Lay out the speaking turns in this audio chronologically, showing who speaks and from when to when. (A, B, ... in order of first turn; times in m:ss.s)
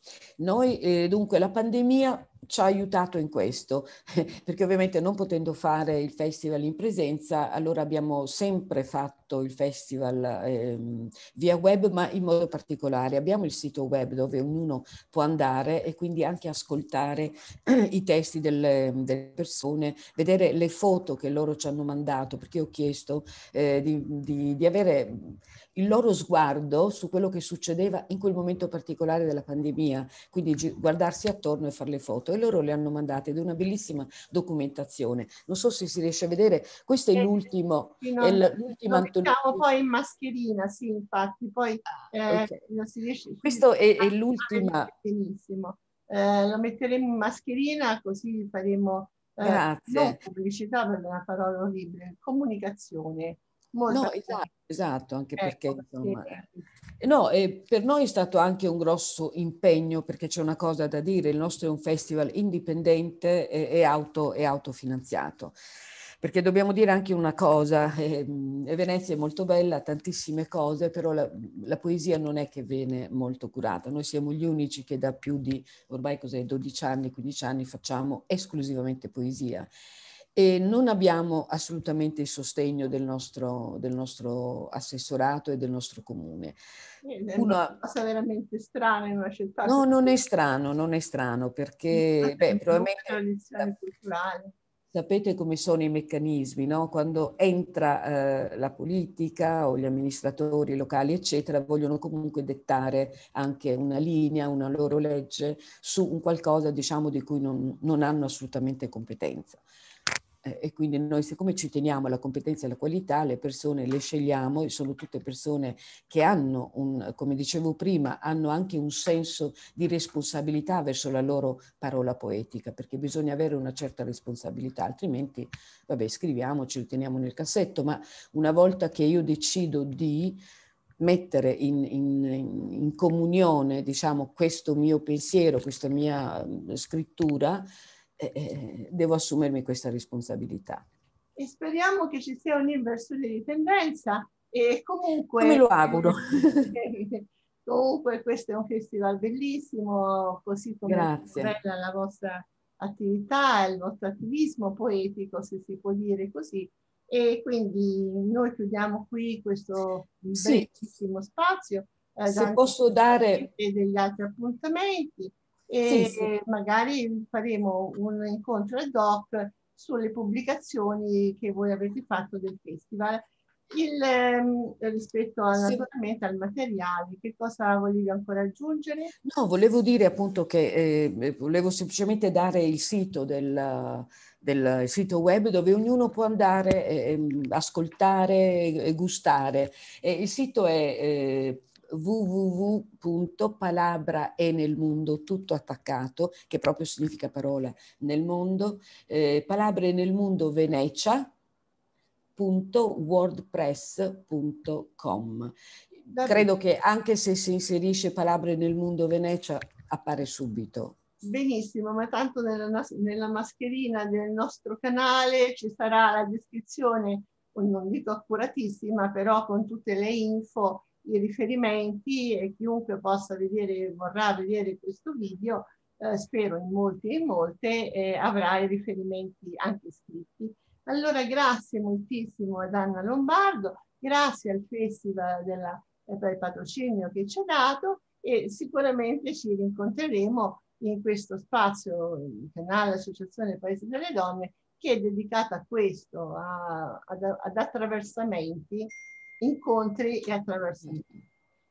0:00.4-0:39.6 A
0:38.0-0:54.5 B
0:43.4-0:44.9 A
0:49.4-0:50.2 A
0:53.9-0:56.4 A
0:55.4-0:56.6 B
0:57.0-1:05.5 A
1:06.2-1:19.7 A
1:20.3-1:26.6 A
1:27.0-1:30.2 B
1:27.4-1:27.8 A
1:29.6-1:33.7 A
1:31.9-1:34.5 B
1:34.9-1:49.6 A
1:50.4-2:10.4 A
2:11.0-2:17.6 A
2:18.2-2:20.8 A
2:21.4-2:26.2 B
2:25.4-2:26.7 A
2:26.7-2:59.1 B
2:30.8-2:31.5 A
2:40.3-2:40.7 A
2:42.3-2:43.4 A
2:45.8-2:46.3 A
2:55.6-2:55.8 A
2:59.2-3:21.3 A
3:22.4-3:25.5 A
3:26.0-3:26.5 B
3:26.2-3:31.0 A
3:31.2-4:11.1 B